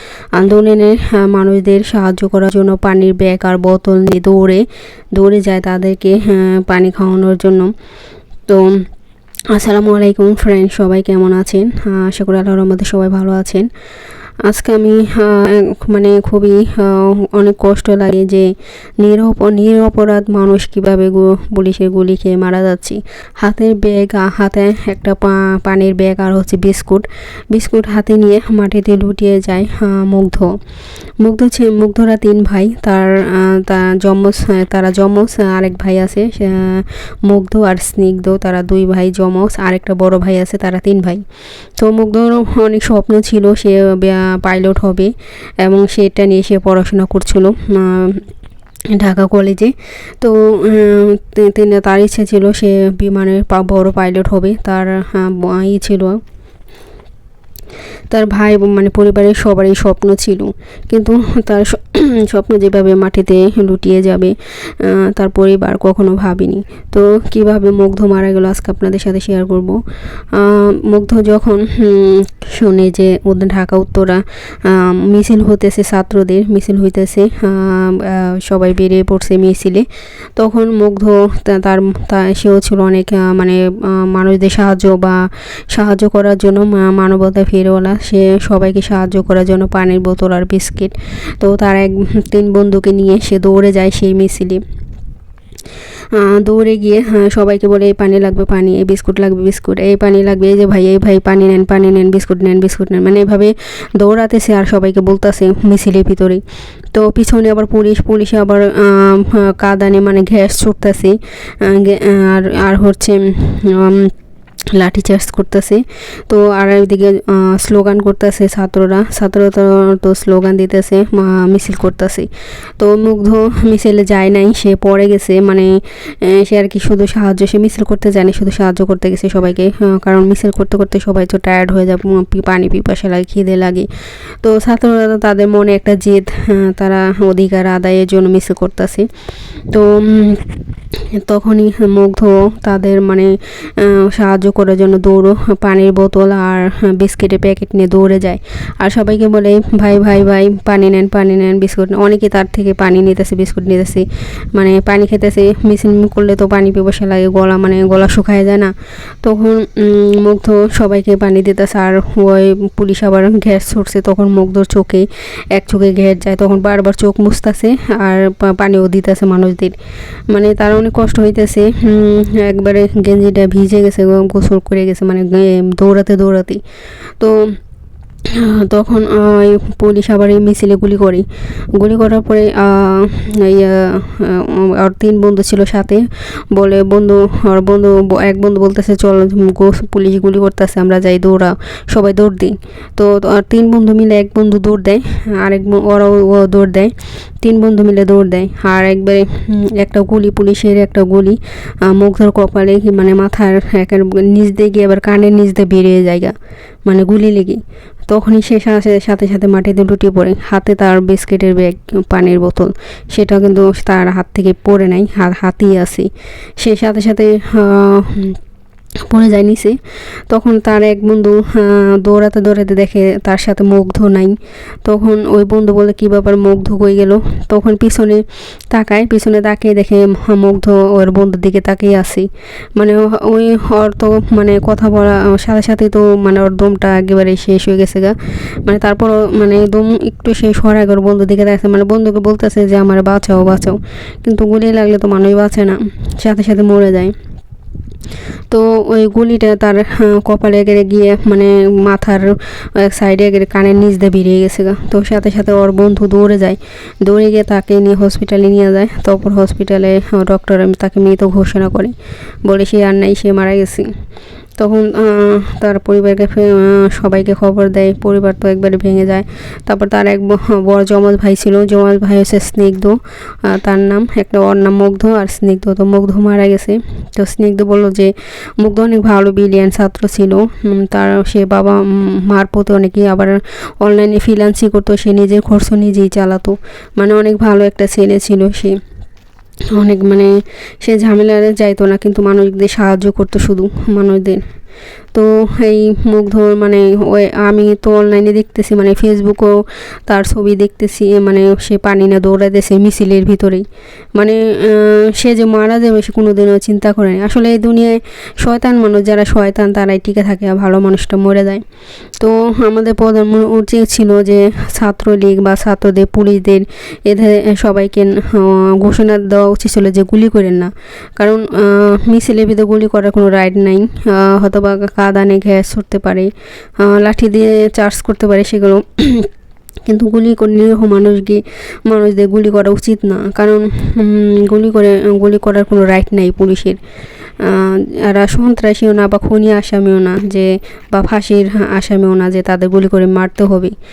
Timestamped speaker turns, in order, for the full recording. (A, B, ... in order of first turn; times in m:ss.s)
0:00.4-0:07.7 A
0:08.5-0:08.9 A
0:09.5-0:13.7 A
0:14.4-0:30.5 A
0:31.2-0:41.2 A
0:41.8-0:48.3 A
0:48.9-0:56.2 A
0:58.1-1:09.8 A
1:10.3-1:34.6 A
1:36.1-1:54.1 A
1:54.7-2:02.3 A
2:02.8-2:13.9 A
2:14.4-2:19.1 A
2:19.7-2:20.5 A
2:21.1-2:49.8 A
2:50.3-2:56.6 A
2:57.2-2:57.6 A
2:58.3-3:26.3 A
3:26.8-3:38.4 A
3:39.1-3:39.8 A
3:40.3-4:07.2 A
4:08.5-4:23.9 A
4:24.6-4:48.8 A
4:49.7-4:50.3 A
4:50.8-4:54.4 A
4:55.1-5:11.6 A
5:12.2-5:29.3 A
5:29.9-5:36.8 A
5:37.4-5:43.7 A